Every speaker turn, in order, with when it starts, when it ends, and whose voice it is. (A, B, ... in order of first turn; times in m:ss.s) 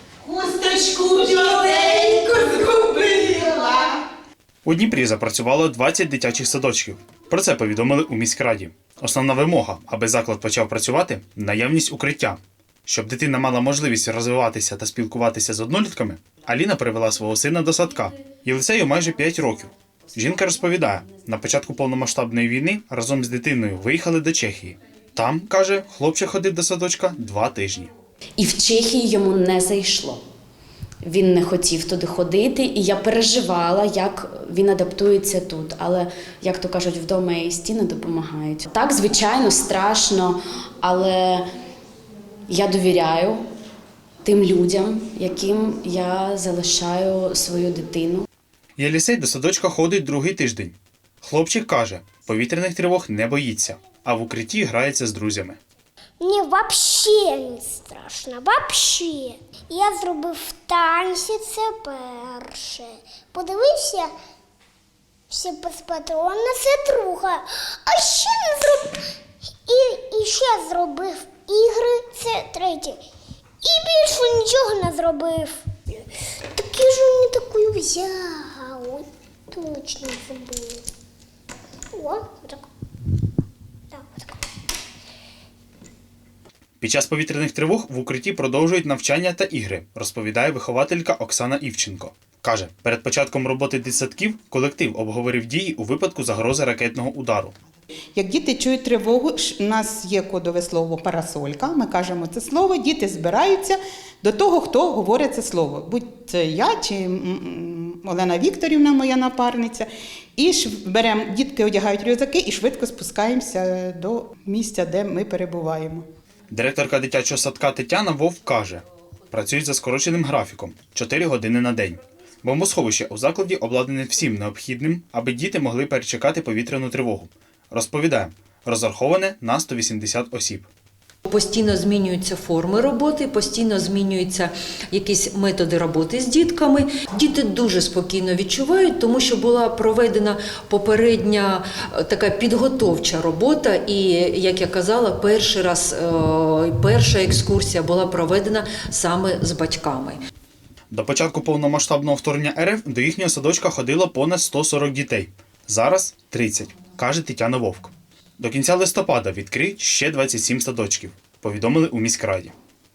0:00.2-0:04.0 A
0:04.6-0:27.9 B
0:28.4-0:30.2 C
0:31.0-0:41.4 C
0:42.5-0:43.4 C
0:44.2-0:48.2 C
0:48.8-0:55.6 B
0:56.2-1:04.1 D
1:05.3-1:09.0 D
1:09.7-1:13.0 D
1:13.6-1:16.0 D
1:16.5-1:20.8 D
1:22.0-1:22.6 D
1:23.9-1:24.4 D
1:26.8-1:37.6 B
1:38.2-1:56.0 E
1:56.5-2:10.7 B
2:11.2-2:30.2 F
2:30.9-2:42.6 B